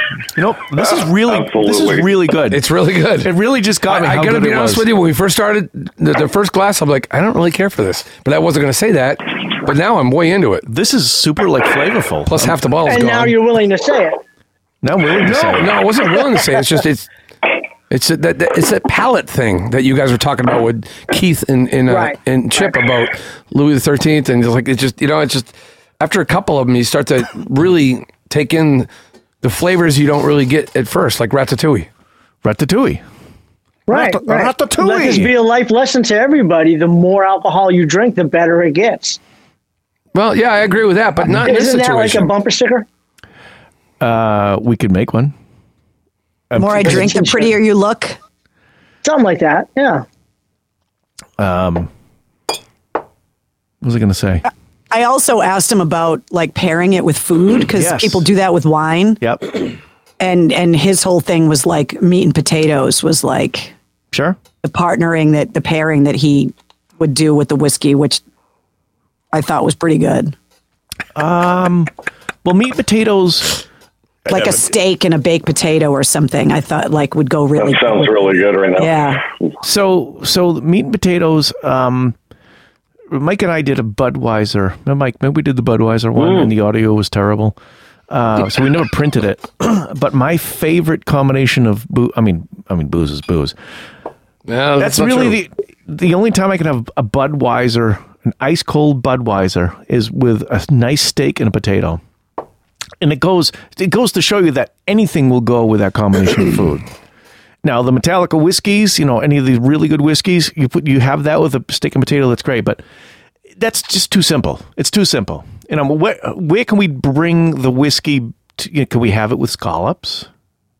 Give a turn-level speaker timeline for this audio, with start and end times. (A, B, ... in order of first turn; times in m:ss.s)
0:00.3-0:02.6 A
0:01.2-0:02.0 B
0:02.5-0:03.3 C
0:03.2-0:04.9 A
0:03.9-0:10.6 C
0:10.6-0:12.6 A
0:12.3-0:13.3 C
0:12.9-0:14.2 D
0:14.8-0:15.8 A
0:15.3-0:17.1 C
0:17.9-0:28.9 C
0:21.9-0:22.2 D
0:29.4-0:31.9 C
0:32.4-0:33.0 A
0:33.9-0:39.2 D
0:33.9-0:35.3 A
0:40.1-0:42.3 C
0:41.4-0:42.9 D
0:44.0-0:45.3 A
0:46.5-0:47.2 A
0:46.6-0:48.2 E
0:47.0-0:47.4 D
0:49.0-0:50.0 D
0:51.4-0:51.9 A
0:53.8-0:54.4 A
0:54.9-0:59.2 E
0:57.8-0:58.2 A
0:59.2-0:59.5 A
1:00.2-1:03.7 E
1:04.1-1:04.4 A
1:04.6-1:08.2 E
1:09.3-1:10.3 E
1:11.1-1:11.9 A
1:12.4-1:13.6 A
1:14.3-1:18.1 E
1:17.6-1:19.2 B
1:18.8-1:19.2 E
1:19.6-1:22.2 A
1:23.1-1:27.6 A
1:26.2-1:26.5 B
1:28.1-1:33.5 A
1:34.5-1:35.4 C
1:34.8-1:42.0 A
1:43.0-1:46.9 A
1:47.6-1:52.8 A
1:53.6-2:00.3 A